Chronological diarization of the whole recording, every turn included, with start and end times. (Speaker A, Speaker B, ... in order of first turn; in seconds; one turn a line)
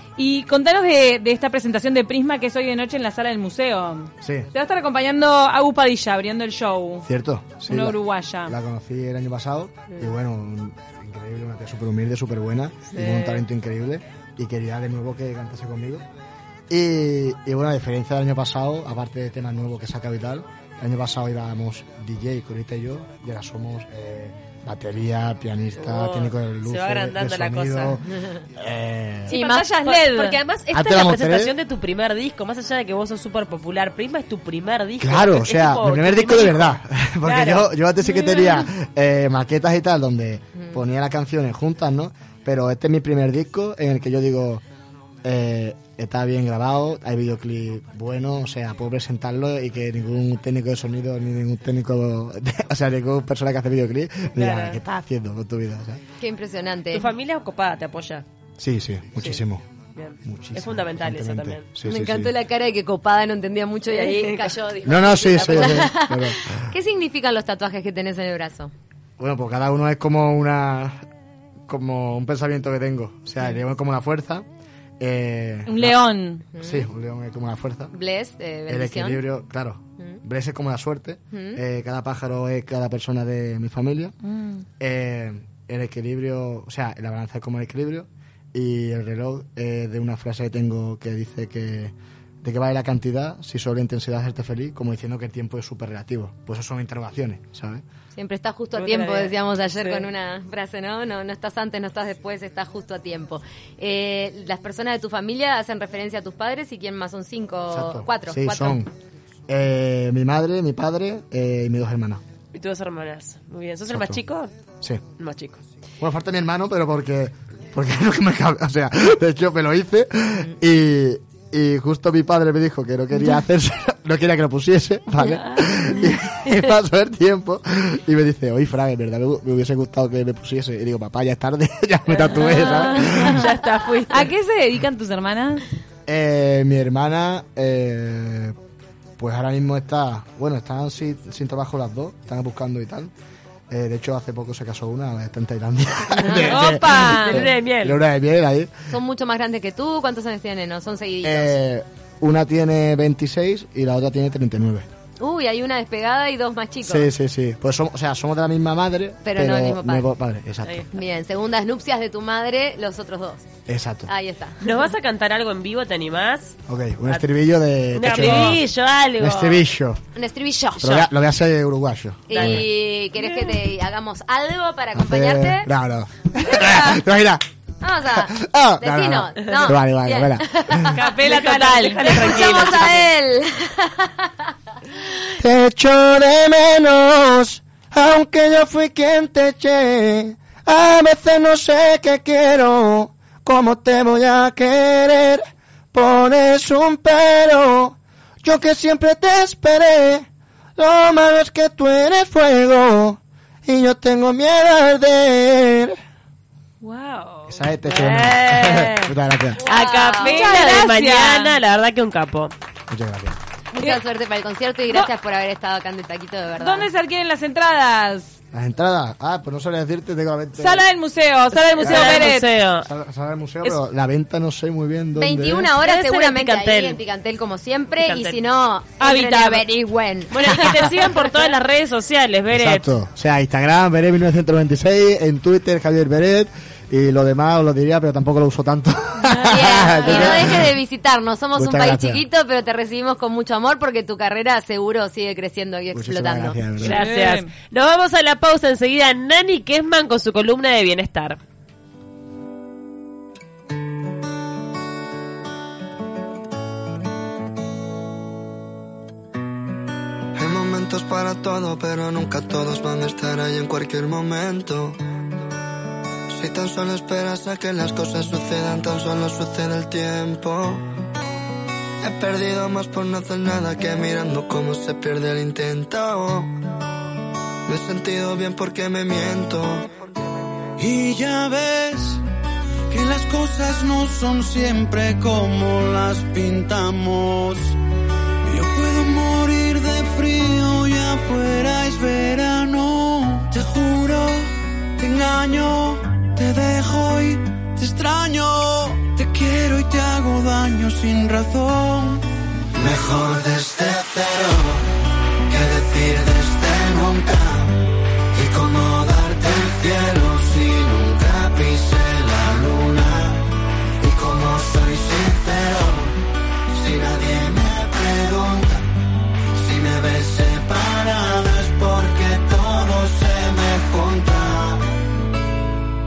Speaker A: 0.2-7.0
Speaker B: 4.2-4.5
Speaker B: 7.0-16.0
Speaker A: 7.7-8.5
Speaker C: 12.9-13.4
Speaker B: 16.7-29.4
Speaker C: 25.8-28.0
Speaker A: 29.3-30.4
Speaker D: 29.3-29.7
Speaker C: 29.3-37.7
Speaker B: 30.7-31.5
Speaker B: 35.0-44.6
Speaker A: 38.1-38.6
Speaker B: 45.2-56.0
Speaker C: 54.4-54.8
Speaker D: 56.2-57.1
Speaker C: 56.9-58.2
Speaker B: 58.6-59.6
Speaker C: 60.0-61.7
Speaker B: 60.2-62.3
Speaker D: 61.9-68.7
Speaker C: 63.9-65.9
Speaker B: 64.8-66.7
Speaker B: 69.2-71.0
Speaker B: 71.7-74.5
Speaker B: 75.0-76.0
Speaker A: 75.7-76.5
Speaker D: 76.5-76.9
Speaker B: 76.6-77.9
Speaker D: 77.9-79.2
Speaker B: 78.7-84.1
Speaker D: 81.3-81.6
Speaker A: 84.2-84.6
Speaker B: 84.8-97.8
Speaker D: 98.1-108.8
Speaker C: 98.7-100.1
Speaker B: 107.7-108.9
Speaker B: 109.5-112.2
Speaker C: 112.5-114.5
Speaker B: 113.9-114.2
Speaker C: 115.2-115.6
Speaker B: 116.0-133.5
Speaker C: 132.1-134.3
Speaker A: 133.0-133.4
Speaker A: 134.1-135.7
Speaker B: 136.1-138.6
Speaker B: 139.2-143.1
Speaker B: 143.7-148.9
Speaker C: 146.3-148.0
Speaker A: 146.3-147.4
Speaker D: 148.9-151.5
Speaker B: 151.2-154.9
Speaker D: 155.2-157.1
Speaker B: 156.8-160.9
Speaker D: 159.2-160.1
Speaker D: 160.9-163.4
Speaker B: 163.7-164.1
Speaker D: 164.1-164.6
Speaker C: 164.6-166.6
Speaker B: 166.7-170.0
Speaker C: 167.9-169.6
Speaker D: 170.2-171.0
Speaker B: 170.8-172.7
Speaker D: 172.3-175.7
Speaker C: 172.3-172.7
Speaker C: 173.2-173.4
Speaker B: 174.9-177.4
Speaker D: 176.5-176.8
Speaker D: 177.8-181.0
Speaker B: 178.1-181.0
Speaker A: 180.9-182.7
Speaker C: 181.0-183.1
Speaker D: 182.0-184.5
Speaker B: 185.4-206.0
Speaker A: 206.8-207.6
Speaker B: 207.5-209.6
Speaker C: 207.8-212.5
Speaker D: 209.6-210.8
Speaker A: 210.1-211.6
Speaker B: 212.9-213.4
Speaker D: 213.7-216.9
Speaker A: 216.6-218.3
Speaker B: 218.5-220.8
Speaker A: 220.6-222.5
Speaker C: 221.6-222.9
Speaker B: 221.8-225.8
Speaker D: 225.2-231.2
Speaker C: 225.8-227.0
Speaker C: 228.0-228.4
Speaker A: 229.0-229.6
Speaker C: 230.3-232.8
Speaker B: 232.5-240.8
Speaker D: 239.4-246.6
Speaker C: 240.0-240.4
Speaker B: 241.5-242.2
Speaker B: 245.9-247.0
Speaker C: 246.8-251.4
Speaker A: 246.8-247.5
Speaker E: 260.3-265.0
Speaker E: 266.3-270.9
Speaker E: 272.0-276.6
Speaker E: 277.6-279.9
Speaker F: 280.8-282.2
Speaker F: 282.9-287.8
Speaker F: 288.4-302.3
Speaker E: 302.7-304.9
Speaker E: 305.5-318.9
Speaker E: 319.5-324.9